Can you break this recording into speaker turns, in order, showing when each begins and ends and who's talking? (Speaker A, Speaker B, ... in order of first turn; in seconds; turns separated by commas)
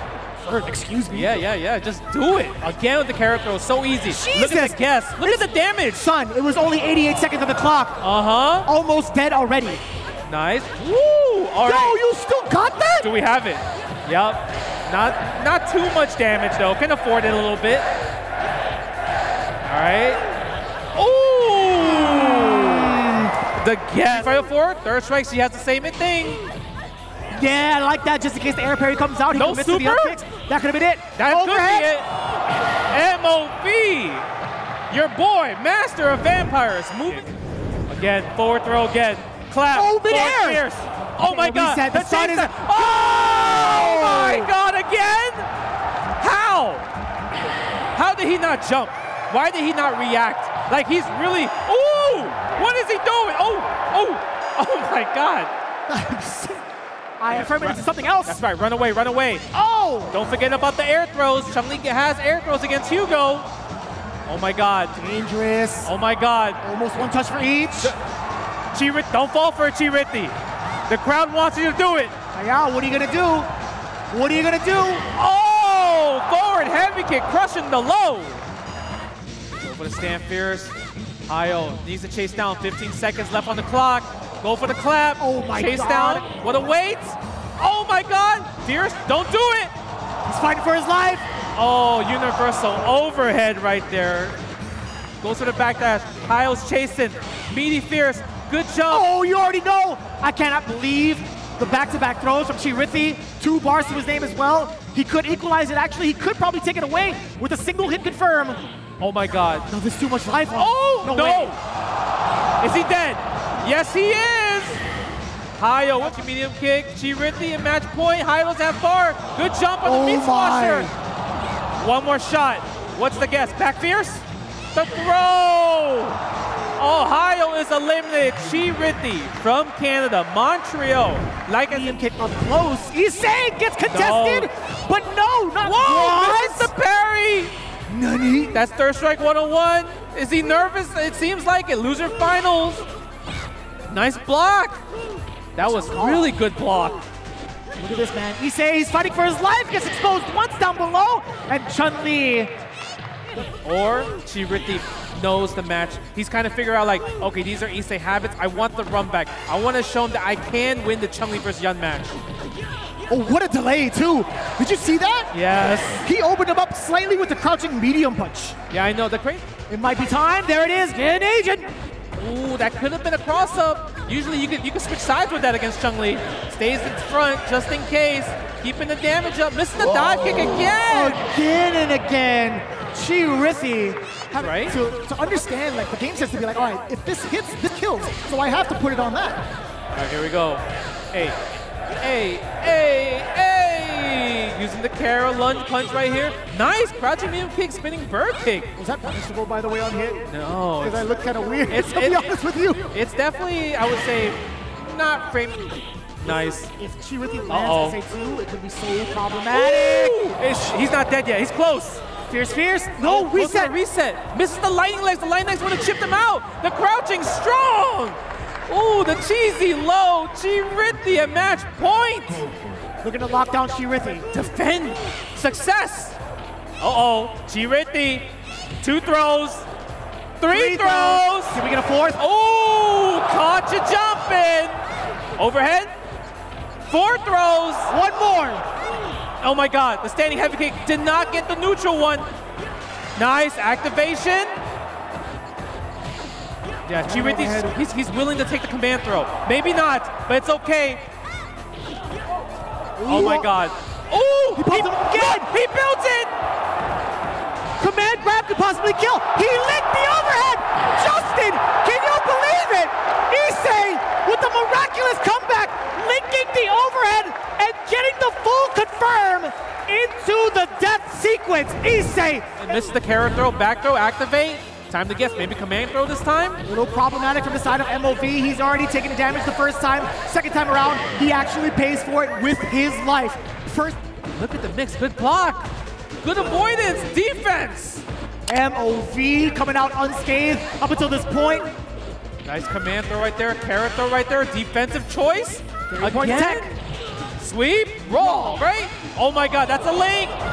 Speaker A: 0.4-1.4, Speaker B: 1.1-6.1, Speaker A: 4.1-8.0, Speaker B: 8.0-8.7, Speaker A: 8.7-9.8, Speaker B: 10.3-12.0, Speaker A: 11.6-13.1, Speaker B: 13.0-17.9, Speaker B: 19.6-20.2, Speaker B: 20.9-23.0, Speaker A: 21.8-23.3, Speaker B: 23.5-26.4, Speaker A: 24.1-24.4, Speaker A: 27.3-31.9, Speaker B: 29.3-30.2, Speaker B: 31.2-32.1, Speaker B: 32.9-34.3, Speaker B: 34.9-37.3, Speaker B: 37.9-45.5, Speaker A: 39.7-40.6, Speaker A: 41.2-44.5, Speaker B: 46.2-46.9, Speaker B: 48.0-55.5, Speaker A: 55.9-56.6, Speaker A: 57.2-58.4, Speaker B: 57.3-59.5, Speaker A: 59.5-60.2, Speaker B: 60.1-63.5, Speaker B: 64.3-64.9, Speaker A: 65.0-65.9, Speaker B: 65.8-66.6, Speaker A: 66.6-68.0, Speaker B: 68.7-70.3, Speaker B: 70.9-72.1, Speaker A: 72.3-73.5, Speaker A: 74.1-75.0, Speaker B: 75.1-78.4, Speaker B: 79.5-80.7, Speaker B: 81.3-89.7, Speaker A: 85.2-86.3, Speaker A: 90.2-91.3, Speaker B: 91.5-94.4, Speaker B: 95.2-99.1, Speaker A: 98.9-108.6, Speaker B: 109.0-109.7, Speaker A: 109.7-111.6, Speaker B: 110.5-111.6, Speaker B: 112.6-114.8, Speaker B: 115.6-120.9, Speaker A: 119.8-120.9, Speaker B: 121.8-126.2, Speaker B: 126.8-132.0, Speaker A: 131.7-136.7, Speaker B: 133.9-134.5, Speaker B: 135.6-137.6, Speaker A: 137.9-138.6, Speaker B: 138.5-142.9, Speaker B: 143.9-144.8, Speaker B: 145.6-147.0, Speaker A: 145.6-146.3, Speaker A: 147.8-152.6, Speaker B: 153.6-162.2, Speaker A: 163.1-165.3, Speaker B: 165.3-166.0, Speaker A: 166.0-168.6, Speaker B: 168.7-169.4, Speaker A: 169.7-171.8, Speaker B: 172.1-181.2, Speaker A: 179.8-189.4, Speaker B: 184.4-184.8, Speaker B: 189.9-191.4, Speaker B: 192.0-198.7, Speaker A: 198.8-202.9, Speaker B: 200.3-201.0, Speaker B: 201.7-206.7, Speaker A: 206.8-210.2, Speaker B: 207.5-208.0, Speaker B: 209.5-212.0, Speaker A: 212.3-213.7, Speaker B: 213.0-222.5, Speaker A: 223.0-224.3, Speaker B: 224.3-226.2, Speaker B: 226.8-228.3, Speaker B: 228.8-229.7, Speaker B: 230.4-231.6, Speaker A: 230.5-232.2, Speaker B: 232.2-234.8, Speaker B: 235.4-235.9, Speaker B: 236.9-237.9, Speaker A: 237.9-238.7, Speaker B: 239.4-242.3, Speaker B: 243.2-244.6, Speaker B: 246.9-251.0, Speaker A: 247.0-247.8, Speaker A: 253.0-253.5, Speaker B: 253.1-256.3, Speaker A: 254.6-255.5, Speaker A: 257.8-272.5, Speaker B: 272.6-276.6, Speaker A: 276.6-284.0, Speaker B: 284.4-285.7, Speaker B: 286.2-288.1, Speaker A: 288.5-291.7, Speaker B: 292.4-296.7, Speaker A: 295.9-296.7, Speaker B: 297.4-300.4, Speaker A: 298.2-298.6